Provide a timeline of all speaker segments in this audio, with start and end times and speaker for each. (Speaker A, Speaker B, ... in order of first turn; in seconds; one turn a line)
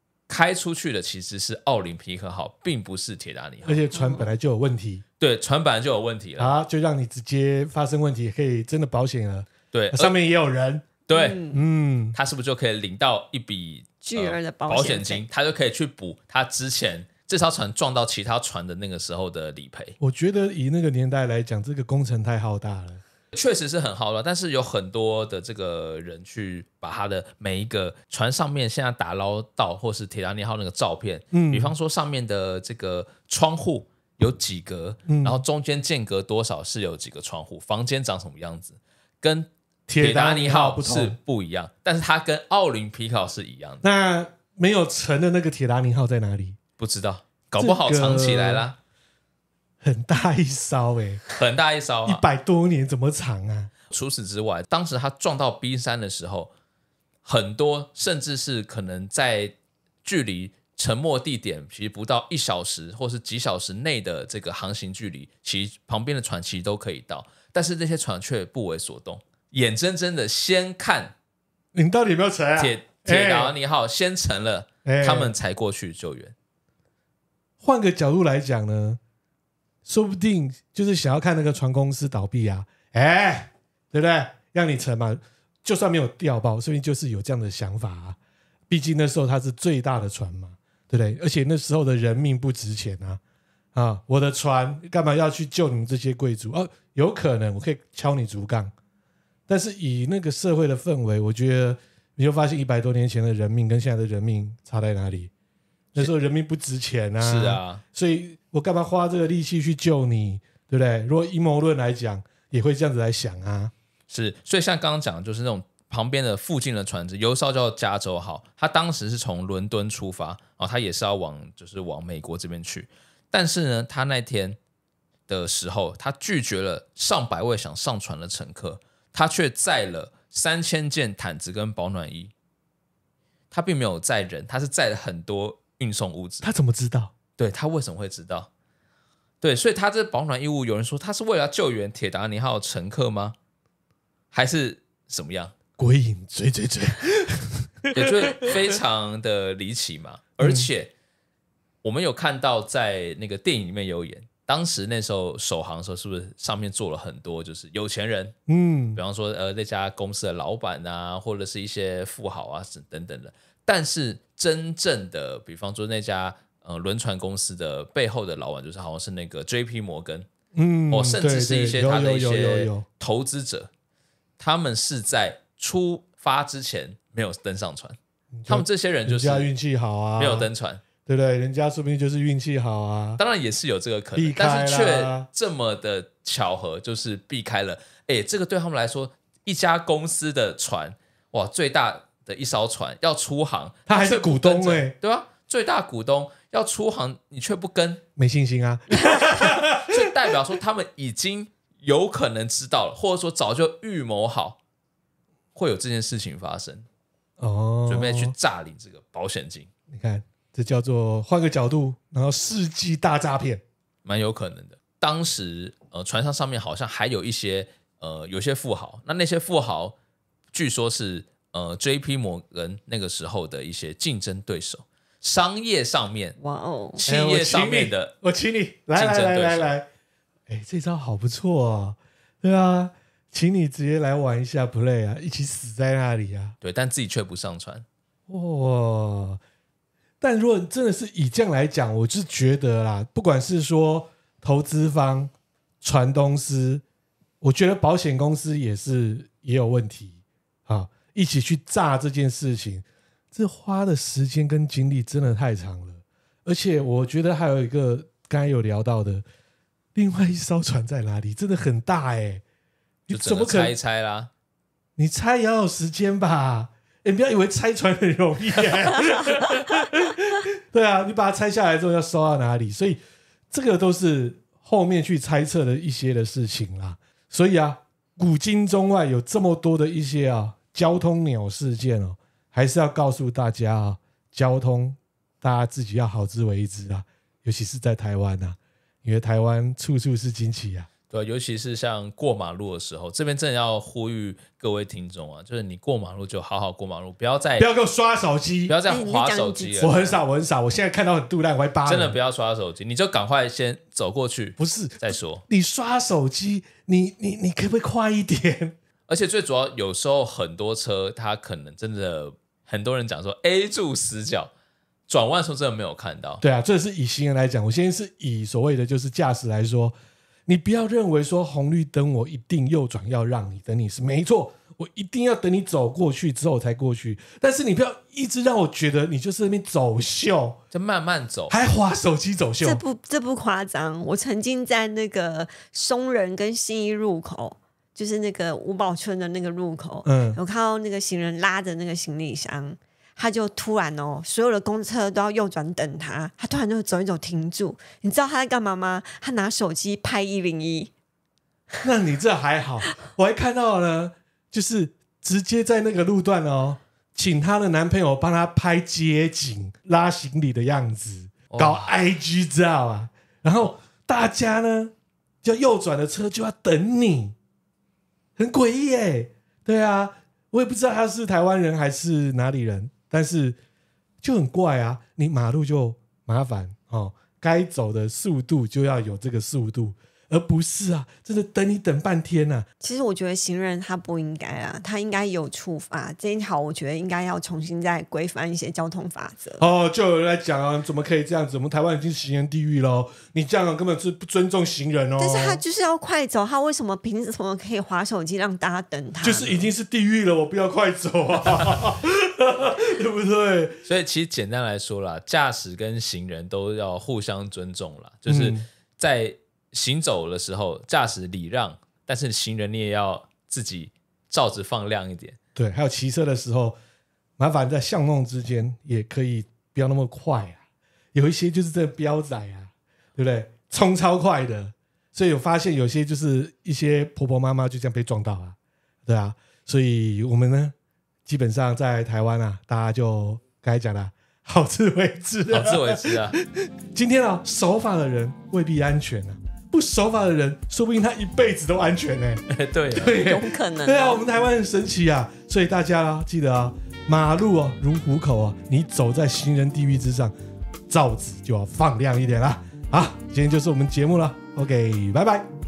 Speaker A: 0.3-3.8
Speaker B: 3.6-5.0
Speaker C: 3.9-4.2
Speaker A: 5.2-6.5
Speaker B: 6.4-12.2
Speaker A: 9.7-10.1
Speaker A: 11.1-11.4
Speaker C: 11.1-11.6
Speaker A: 12.1-20.0
Speaker C: 14.0-15.2
Speaker B: 20.0-23.0
Speaker A: 23.3-43.8
Speaker B: 31.3-31.7
Speaker B: 35.1-35.4
Speaker B: 39.9-41.1
Speaker B: 43.8-46.6
Speaker A: 46.8-48.8
Speaker B: 47.6-48.6
Speaker B: 49.8-51.2
Speaker A: 51.3-52.2
Speaker B: 52.0-53.7
Speaker A: 53.9-56.5
Speaker A: 57.2-71.1
Speaker B: 71.7-73.5
Speaker A: 72.6-76.3
Speaker B: 74.8-75.3
Speaker B: 77.6-79.0
Speaker B: 79.8-88.2
Speaker B: 88.7-93.2
Speaker B: 93.7-98.7
Speaker B: 99.5-105.3
Speaker B: 105.9-113.7
Speaker A: 107.2-107.8
Speaker A: 114.1-124.6
Speaker A: 125.3-132.3
Speaker A: 133.5-136.5
Speaker B: 136.4-137.1
Speaker A: 137.4-138.5
Speaker A: 139.4-143.3
Speaker A: 144.3-145.5
Speaker B: 145.8-148.6
Speaker A: 147.9-150.9
Speaker B: 150.4-150.7
Speaker A: 151.8-158.3
Speaker B: 158.5-159.0
Speaker A: 158.9-170.3
Speaker B: 170.5-172.8
Speaker A: 170.9-173.7
Speaker A: 174.4-177.9
Speaker B: 178.3-180.5
Speaker A: 178.5-179.5
Speaker A: 180.2-180.8
Speaker B: 181.1-183.2
Speaker A: 183.2-198.0
Speaker B: 184.2-185.3
Speaker B: 193.9-194.9
Speaker B: 198.2-200.3
Speaker A: 199.3-204.6
Speaker A: 205.5-206.8
Speaker B: 207.4-208.3
Speaker A: 207.9-209.7
Speaker B: 209.9-213.6
Speaker A: 214.0-219.9
Speaker A: 220.5-226.3
Speaker C: 226.4-227.0
Speaker A: 227.0-228.1
Speaker B: 227.1-229.9
Speaker A: 228.9-229.7
Speaker B: 230.5-236.5
Speaker A: 236.6-237.8
Speaker B: 238.3-239.4
Speaker B: 240.2-246.8
Speaker B: 247.4-259.2
Speaker B: 259.9-262.4
Speaker B: 263.1-263.7
Speaker A: 263.1-264.3
Speaker B: 265.0-273.0
Speaker B: 273.5-290.9
Speaker A: 291.1-297.7
Speaker B: 297.6-298.8
Speaker A: 298.7-300.2
Speaker C: 298.9-300.0
Speaker B: 299.8-302.2
Speaker A: 301.8-305.4
Speaker B: 304.6-308.8
Speaker A: 309.1-314.5
Speaker A: 315.1-316.4
Speaker B: 316.4-319.9
Speaker B: 320.5-330.6
Speaker A: 330.7-331.6
Speaker B: 331.5-332.8
Speaker C: 332.6-350.9
Speaker B: 340.0-340.4
Speaker B: 351.8-367.4
Speaker A: 361.5-361.9
Speaker B: 368.4-373.6
Speaker B: 374.2-382.7
Speaker C: 382.8-389.6
Speaker B: 389.6-395.6
Speaker C: 395.2-399.7
Speaker B: 399.2-403.8
Speaker A: 403.8-415.4
Speaker B: 408.3-408.6
Speaker B: 415.6-416.8
Speaker B: 417.4-420.6
Speaker B: 421.1-430.7
Speaker B: 431.2-442.4
Speaker A: 435.5-436.4
Speaker A: 442.5-443.2
Speaker B: 442.9-450.3
Speaker C: 443.1-444.2
Speaker B: 450.9-455.5